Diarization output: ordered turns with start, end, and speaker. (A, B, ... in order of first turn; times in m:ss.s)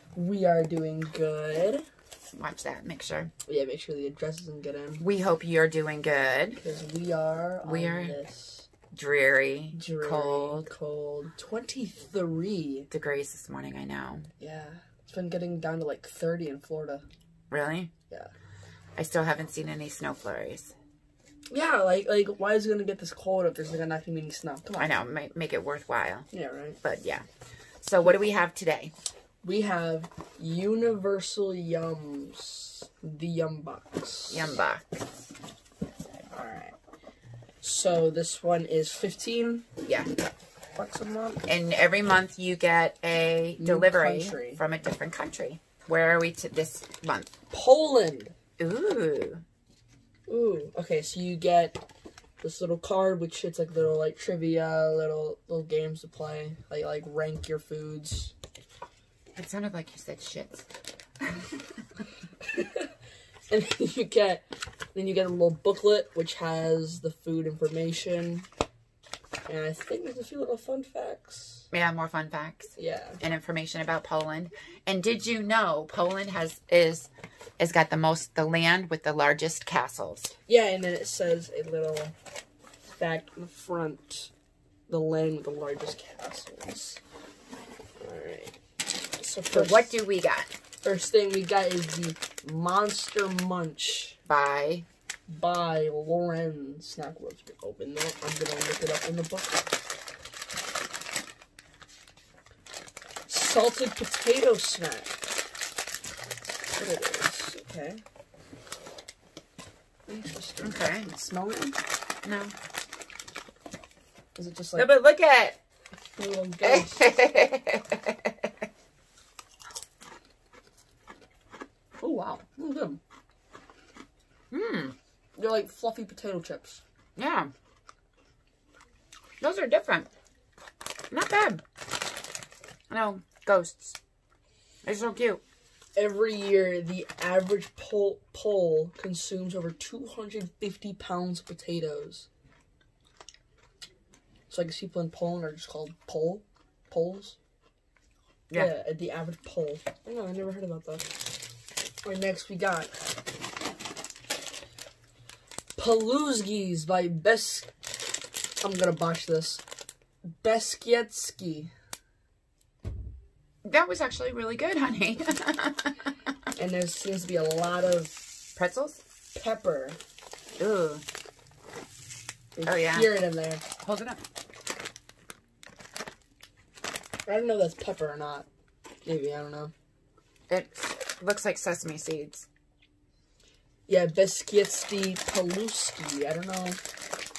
0:00.1-0:01.8 A
0:02.4-0:03.3 B
0:03.5-0:05.0 A
0:05.0-0:06.6 B
0:06.6-0:08.7 A
0:07.6-0:08.2 B
0:08.9-0:10.7 B
0:09.7-0:12.9 A
0:12.9-0:14.3 B
0:14.4-0:17.0 A
0:17.5-0:17.9 B
0:19.0-0:20.7 B
0:21.5-0:25.0 A
0:24.8-0:26.3 B
0:26.3-0:26.8 A
0:26.8-0:27.3 B
0:27.8-0:28.9 B
0:29.4-0:34.6 A
0:34.3-0:35.0 B
0:36.3-0:36.8 A
0:37.6-0:39.7 A
0:39.8-0:40.2 B
0:40.8-0:41.4 A
0:41.5-0:47.3 B
0:43.6-0:44.6 A
0:47.5-0:48.3 A
0:48.6-0:49.4 B
0:50.3-0:51.8 A
0:52.4-0:58.3 A
0:59.4-1:00.6 B
1:02.5-1:02.9 A
1:03.5-1:08.5 A
1:09.5-1:11.7 A
1:11.7-1:20.3 B
1:12.8-1:13.2 A
1:20.5-1:22.1 A
1:23.0-1:24.3 A
1:24.9-1:27.0 A
1:28.0-1:28.6 A
1:29.2-1:30.0 A
1:29.5-1:30.5 B
1:30.8-1:34.2 A
1:34.3-1:34.9 B
1:35.3-1:39.7 A
1:43.3-1:45.3 A
1:46.7-1:48.0 A
1:50.1-1:51.8 A
1:50.6-1:51.1 B
1:52.2-1:52.5 B
1:54.4-1:54.9 A
1:54.8-1:55.6 B
1:56.2-1:57.0 A
1:56.6-1:58.5 B
2:02.0-2:03.0 A
2:04.5-2:05.0 B
2:05.4-2:06.8 A
2:07.2-2:07.5 B
2:09.4-2:10.1 B
2:11.1-2:11.6 B
2:12.9-2:14.0 B
2:14.8-2:15.4 B
2:16.0-2:22.3 A
2:24.5-2:27.4 A
2:28.5-2:31.1 A
2:32.0-2:33.0 A
2:35.8-2:37.7 A
2:38.6-2:39.6 A
2:40.4-2:41.7 A
2:43.6-2:46.1 B
2:46.6-2:48.1 A
2:48.6-2:49.0 B
2:49.4-2:50.0 A
2:50.6-2:51.0 B
2:52.6-2:53.6 A
2:52.7-2:53.2 B
2:53.8-2:54.2 B
2:57.3-2:58.5 A
2:59.0-2:59.7 A
3:00.5-3:02.5 B
3:03.9-3:06.8 A